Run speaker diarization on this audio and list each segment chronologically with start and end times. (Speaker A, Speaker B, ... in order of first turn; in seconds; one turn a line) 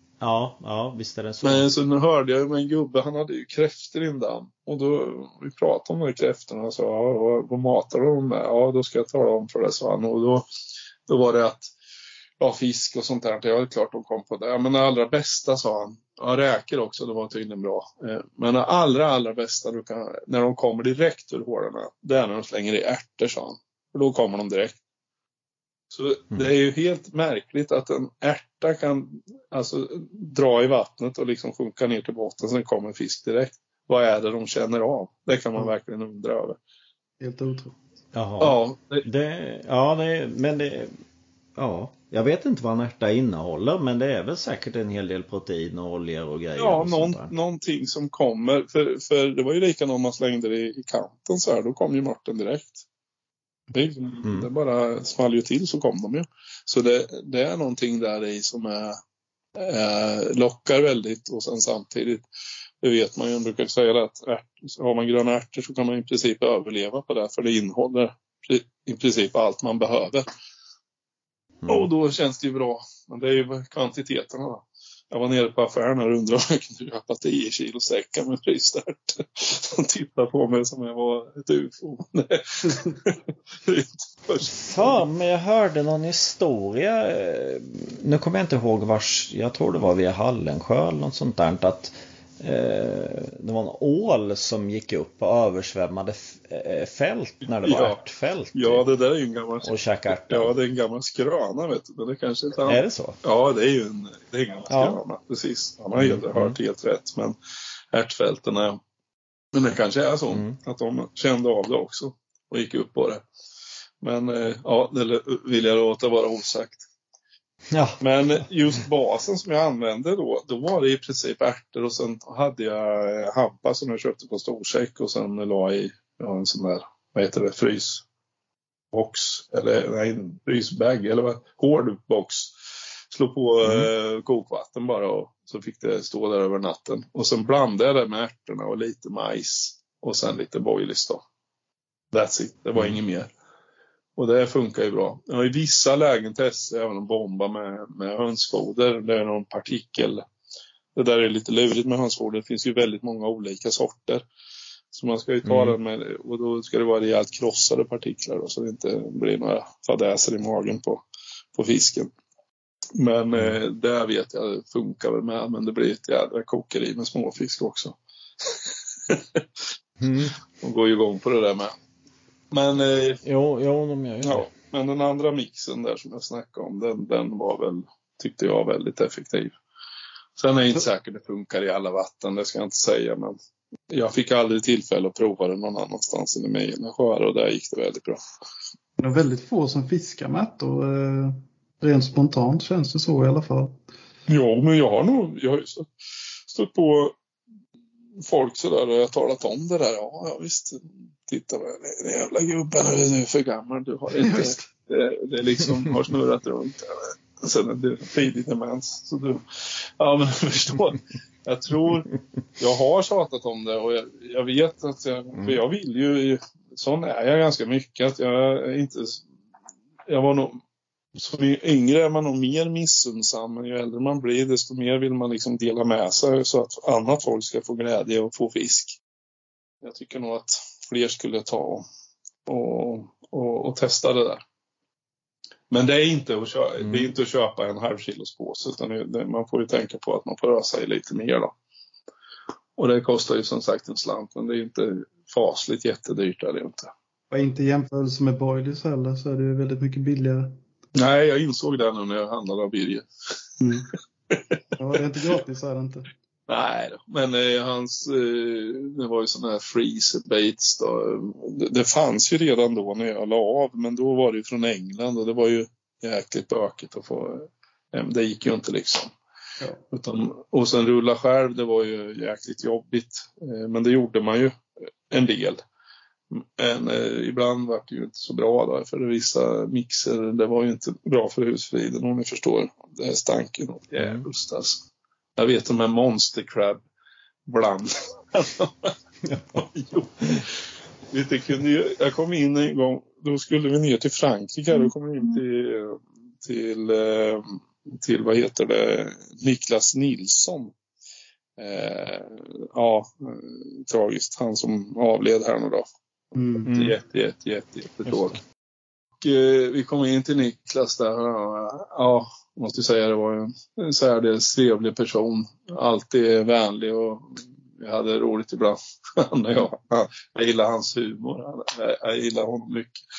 Speaker A: 0.2-1.7
Speaker B: 1.4-10.4
Speaker B: 11.1-11.7
Speaker B: 12.4-24.8
Speaker B: 25.9-36.6
Speaker C: 37.2-37.8
Speaker A: 38.1-40.9
Speaker B: 38.4-39.1
Speaker A: 41.5-47.3
Speaker B: 46.6-52.9
Speaker B: 53.7-59.0
Speaker B: 59.5-62.2
Speaker B: 62.8-70.2
Speaker A: 71.6-71.9
Speaker B: 71.7-85.0
Speaker A: 84.6-98.8
Speaker B: 97.5-98.0
Speaker B: 98.5-107.3
Speaker A: 99.6-100.5
Speaker A: 102.7-103.2
Speaker A: 104.7-105.0
Speaker A: 106.0-106.5
Speaker B: 107.9-108.8
Speaker B: 109.5-113.2
Speaker A: 110.3-110.5
Speaker B: 114.0-116.8
Speaker A: 117.7-118.0
Speaker B: 118.0-128.1
Speaker B: 128.9-132.5
Speaker B: 133.1-141.2
Speaker A: 133.6-133.9
Speaker B: 142.1-143.3
Speaker B: 144.2-150.2
Speaker B: 150.9-154.2
Speaker B: 154.9-161.0
Speaker A: 155.4-155.8
Speaker B: 161.6-162.1
Speaker B: 162.9-169.4
Speaker A: 170.0-170.4
Speaker B: 170.6-171.7
Speaker B: 172.5-173.2
Speaker A: 173.2-174.4
Speaker B: 174.2-179.6
Speaker B: 180.4-183.4
Speaker B: 183.9-188.2
Speaker C: 189.0-193.8
Speaker B: 194.3-195.9
Speaker B: 196.5-197.1
Speaker B: 198.2-209.4
Speaker C: 204.2-204.6
Speaker B: 210.0-219.2
Speaker B: 220.1-220.6
Speaker B: 221.1-229.0
Speaker B: 229.8-231.8
Speaker B: 232.4-234.4
Speaker B: 235.7-241.5
Speaker A: 236.8-237.1
Speaker B: 242.8-246.9
Speaker C: 247.3-250.6
Speaker B: 250.9-253.1
Speaker C: 253.6-253.9
Speaker B: 254.3-254.6
Speaker C: 254.8-256.1
Speaker B: 256.5-269.1
Speaker B: 269.9-274.5
Speaker B: 275.1-275.6
Speaker B: 276.3-284.9
Speaker A: 284.0-284.2
Speaker B: 285.4-286.8
Speaker B: 287.4-288.9
Speaker A: 289.2-289.6
Speaker B: 289.6-290.6
Speaker B: 291.1-300.7
Speaker B: 301.6-305.9
Speaker C: 306.4-306.7
Speaker B: 306.6-308.4
Speaker A: 306.7-306.9
Speaker B: 309.2-323.0